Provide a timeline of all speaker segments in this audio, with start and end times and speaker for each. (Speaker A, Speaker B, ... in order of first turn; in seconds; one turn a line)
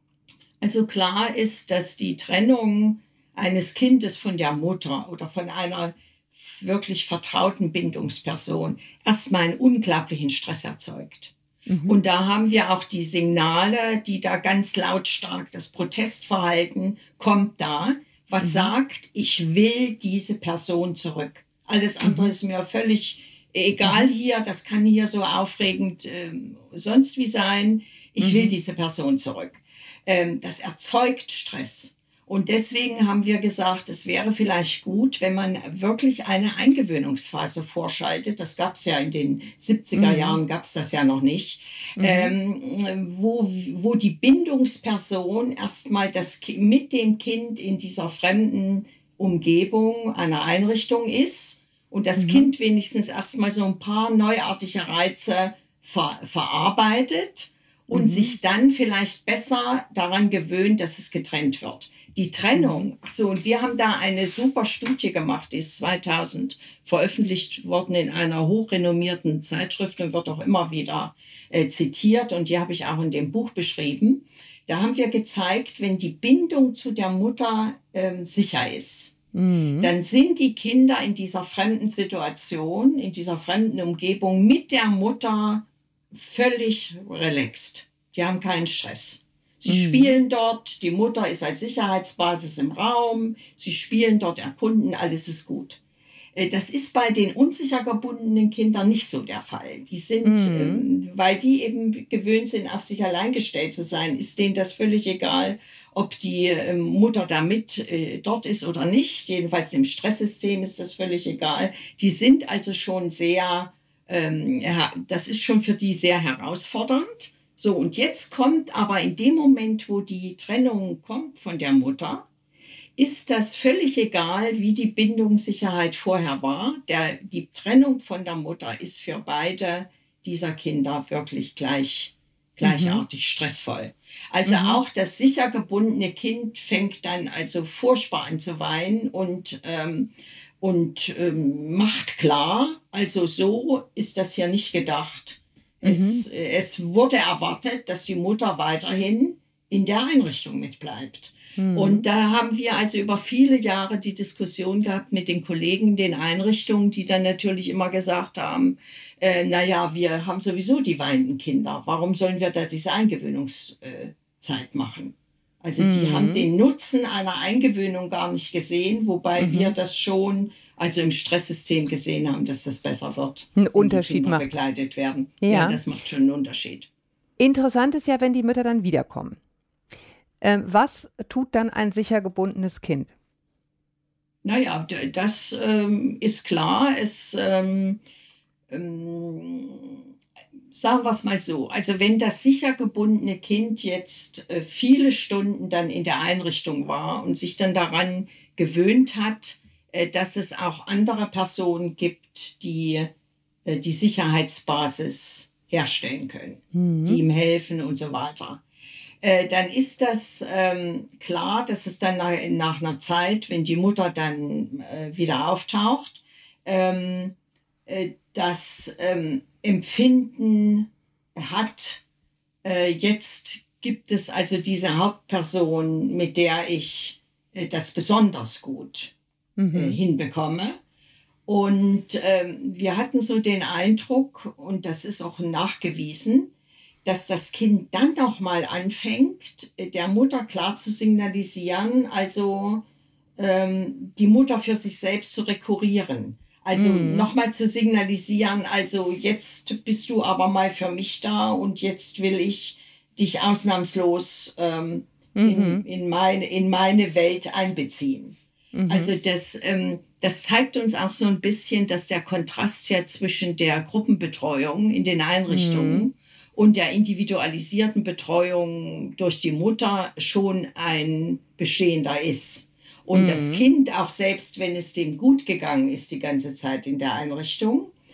Speaker A: 0.6-11.3
Speaker B: 11.7-12.0
Speaker A: 11.9-79.2
Speaker B: 18.4-18.7
Speaker B: 22.0-22.3
Speaker B: 28.2-28.6
Speaker B: 40.0-40.4
Speaker B: 42.0-42.3
Speaker B: 52.2-52.5
Speaker B: 57.9-58.4
Speaker B: 79.3-79.9
Speaker A: 79.8-95.8
Speaker B: 89.7-90.2
Speaker A: 96.4-122.3
Speaker B: 100.2-100.8
Speaker A: 123.0-176.9
Speaker B: 132.6-133.0
Speaker B: 134.5-134.8
Speaker B: 145.8-146.3
Speaker B: 151.6-152.1
Speaker B: 165.8-166.5
Speaker B: 169.4-169.8
Speaker B: 173.6-174.5
Speaker B: 175.4-175.8
Speaker B: 177.4-179.4
Speaker B: 180.4-183.1
Speaker A: 184.4-188.0
Speaker A: 188.7-190.0
Speaker A: 190.7-203.1
Speaker A: 203.7-208.6
Speaker B: 206.7-207.2
Speaker A: 209.2-217.3
Speaker A: 217.9-222.0
Speaker A: 222.6-229.1
Speaker B: 229.6-230.0
Speaker A: 229.7-230.8
Speaker A: 231.5-236.5
Speaker A: 237.1-242.8
Speaker A: 243.4-258.4
Speaker B: 246.7-247.3
Speaker B: 255.4-255.8
Speaker B: 258.8-259.1
Speaker A: 258.9-277.9
Speaker B: 265.5-266.1
Speaker B: 273.1-273.6